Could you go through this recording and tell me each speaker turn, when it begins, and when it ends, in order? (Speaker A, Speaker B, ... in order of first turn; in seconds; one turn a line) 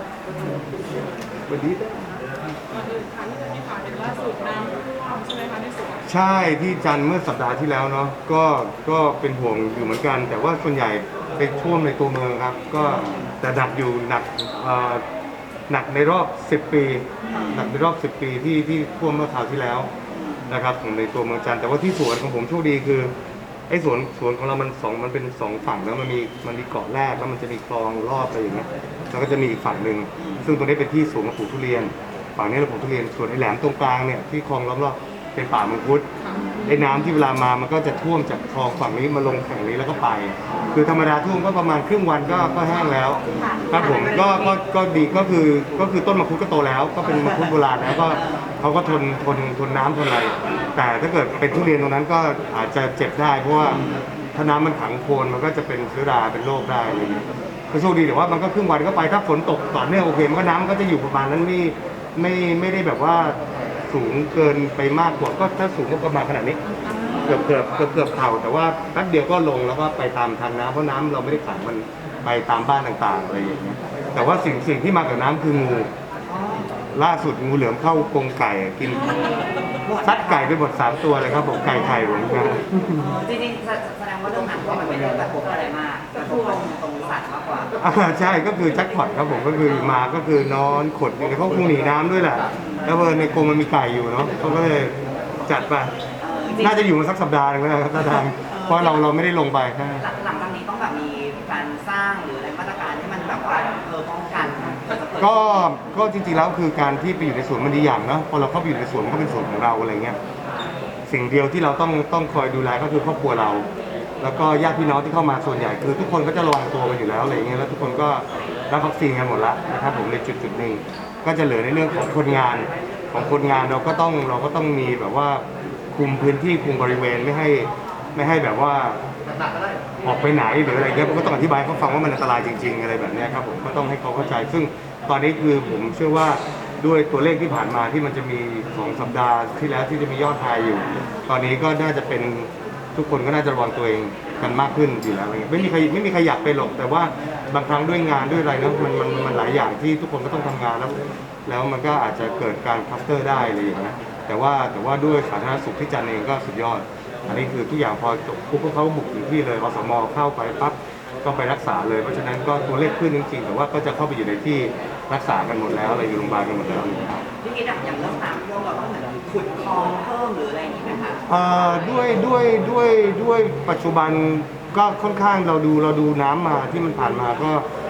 Speaker A: 1.5-2.2
Speaker B: 2.7-6.0
Speaker A: 6.0-15.0
Speaker C: 12.8-13.3
Speaker A: 15.7-19.9
Speaker C: 17.3-17.7
Speaker C: 20.1-20.5
Speaker A: 20.5-23.1
Speaker A: 23.7-36.0
Speaker C: 30.2-30.4
Speaker B: 36.2-36.5
Speaker A: 36.6-53.8
Speaker C: 43.3-44.6
Speaker C: 48.1-48.4
Speaker C: 53.6-54.0
Speaker A: 54.3-63.4
Speaker A: 63.9-66.6
Speaker B: 66.8-68.0
Speaker C: 67.0-67.3
Speaker A: 67.2-75.9
Speaker C: 76.3-76.7
Speaker A: 76.9-79.4
Speaker C: 79.8-80.5
Speaker A: 80.0-83.0
Speaker C: 83.0-87.8
Speaker A: 87.8-95.9
Speaker C: 92.6-92.8
Speaker C: 96.2-96.9
Speaker A: 96.6-100.0
Speaker C: 98.4-99.0
Speaker C: 100.0-105.6
Speaker A: 105.2-110.2
Speaker A: 111.1-113.7
Speaker A: 114.2-129.0
Speaker A: 130.0-167.2
Speaker C: 167.4-171.2
Speaker A: 171.3-177.6